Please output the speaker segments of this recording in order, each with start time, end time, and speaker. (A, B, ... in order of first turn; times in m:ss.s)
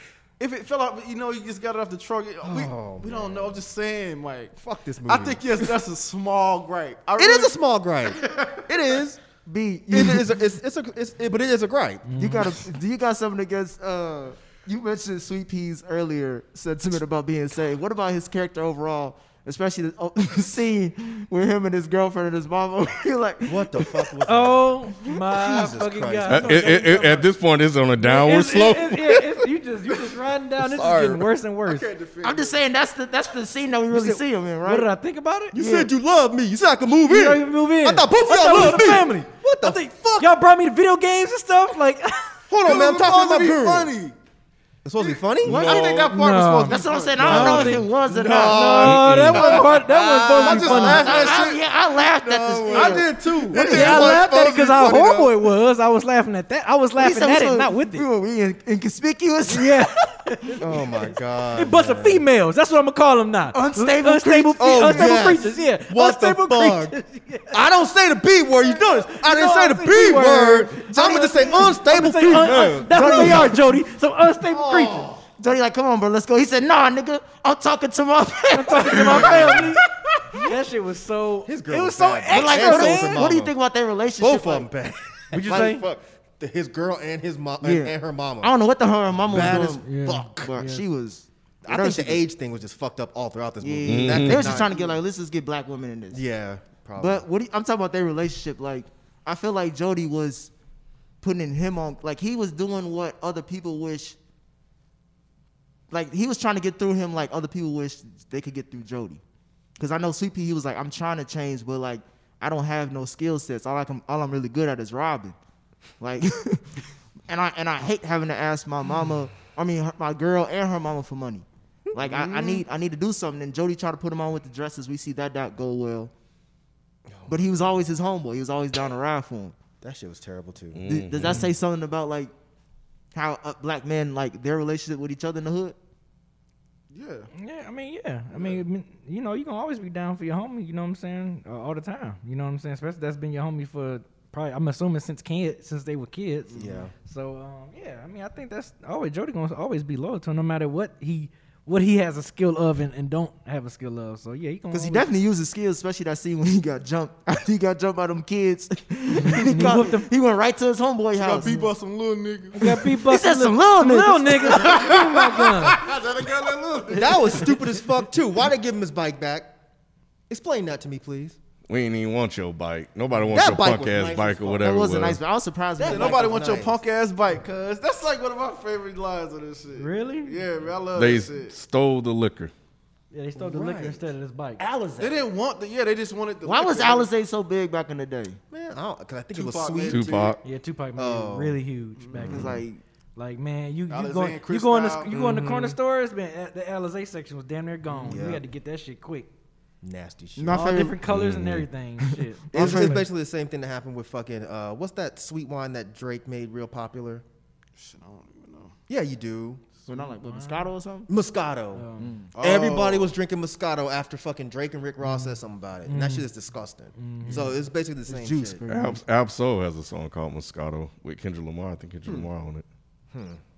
0:00.4-0:04.6 A
0:02.4-0:03.6 B
0:04.6-0:05.7 B
0:05.1-0:07.6 A
0:07.2-0:09.2 B
0:08.2-0:08.6 A
0:09.4-0:10.5 C
0:09.9-0:12.1 B
0:12.0-0:12.5 D
0:12.2-0:24.0 C
0:23.5-0:26.7 B
0:24.3-0:27.3 D
0:26.3-0:29.3 E
0:28.0-0:31.9 D
0:30.7-0:31.1 B
0:31.6-0:32.6 A
0:32.2-0:34.9 C
0:33.9-0:35.6 D
0:35.5-0:40.4 B
0:35.5-0:35.9 C
0:36.9-0:42.4 D
0:42.5-0:43.9 B
0:42.6-0:44.1 A
0:44.8-0:45.9 B
0:45.0-0:48.6 A
0:45.4-0:46.1 E
0:45.4-0:46.1 C
0:46.0-0:51.3 D
0:46.6-0:48.9 C
0:48.1-0:51.6 B
0:48.8-0:49.5 E
0:49.3-0:51.6 A
0:50.5-0:53.1 C
0:52.2-0:55.4 B
0:52.7-0:54.2 A
0:53.6-0:58.0 D
0:57.0-0:59.9 C
0:59.5-1:07.6 D
1:00.6-1:02.2 B
1:03.5-1:05.4 C
1:04.6-1:07.0 B
1:07.5-1:13.5 B
1:08.8-1:15.1 D
1:12.5-1:12.8 E
1:12.8-1:13.8 C
1:14.5-1:15.2 B
1:15.4-1:19.7 C
1:18.5-1:23.3 D
1:19.0-1:19.6 B
1:21.5-1:23.5 B
1:22.3-1:24.7 C
1:24.2-1:28.5 B
1:25.3-1:25.9 D
1:27.6-1:32.2 C
1:29.3-1:30.5 B
1:29.4-1:30.8 D
1:31.6-1:35.0 B
1:33.6-1:36.2 C
1:33.9-1:34.6 E
1:36.1-1:37.2 B
1:37.0-1:40.5 C
1:41.2-1:44.2 C
1:45.9-1:49.2 C
1:49.8-1:55.4 C
1:56.0-1:56.8 C
1:57.3-2:06.1 C
2:01.9-2:02.2 B
2:02.1-2:02.6 A
2:07.1-2:07.7 B
2:07.3-2:09.6 C
2:09.8-2:10.8 B
2:10.7-2:11.4 E
2:10.9-2:12.3 C
2:13.1-2:15.8 C
2:16.9-2:17.3 A
2:17.4-2:35.1 D
2:18.3-2:18.6 A
2:26.5-2:26.9 A
2:26.6-2:26.9 B
2:34.7-2:41.7 C
2:39.1-2:40.1 D
2:41.1-2:42.8 A
2:42.5-2:45.9 D
2:42.9-2:44.8 C
2:44.5-2:47.5 A
2:46.9-2:47.8 D
2:46.9-2:49.6 B
2:50.3-2:51.4 B
2:51.7-2:55.2 E
2:53.3-2:54.7 B
2:54.6-2:56.6 C
2:55.8-2:56.8 B
2:55.8-3:01.5 A
2:59.8-3:00.4 D
3:01.0-3:02.5 E
3:03.1-3:04.6 D
3:03.4-3:04.1 B
3:04.6-3:05.2 C
3:05.0-3:07.1 A
3:06.4-3:08.4 C
3:08.5-3:10.4 B
3:09.3-3:10.4 A
3:09.9-3:10.4 E
3:10.4-3:12.6 D
3:11.0-3:11.6 B
3:12.0-3:12.4 A
3:12.2-3:12.6 B
3:12.3-3:12.8 C
3:13.2-3:19.3 D
3:13.9-3:15.1 A
3:15.1-3:15.8 B
3:17.9-3:18.2 A
3:18.1-3:18.4 B
3:19.8-3:20.7 B
3:20.4-3:21.0 C
3:20.5-3:23.0 D
3:21.1-3:21.7 E
3:22.5-3:23.0 C
3:22.5-3:27.2 B
3:27.8-3:28.8 A
3:28.9-3:29.6 B
3:29.9-3:31.1 C
3:29.9-3:30.7 D
3:31.1-3:31.9 B
3:31.7-3:32.2 D
3:32.0-3:32.3 C
3:32.3-3:33.1 A
3:32.4-3:38.6 B
3:35.0-3:35.3 D
3:35.9-3:36.3 D
3:37.0-3:37.5 D
3:38.1-3:39.0 C
3:38.7-3:42.6 E
3:43.1-3:43.4 B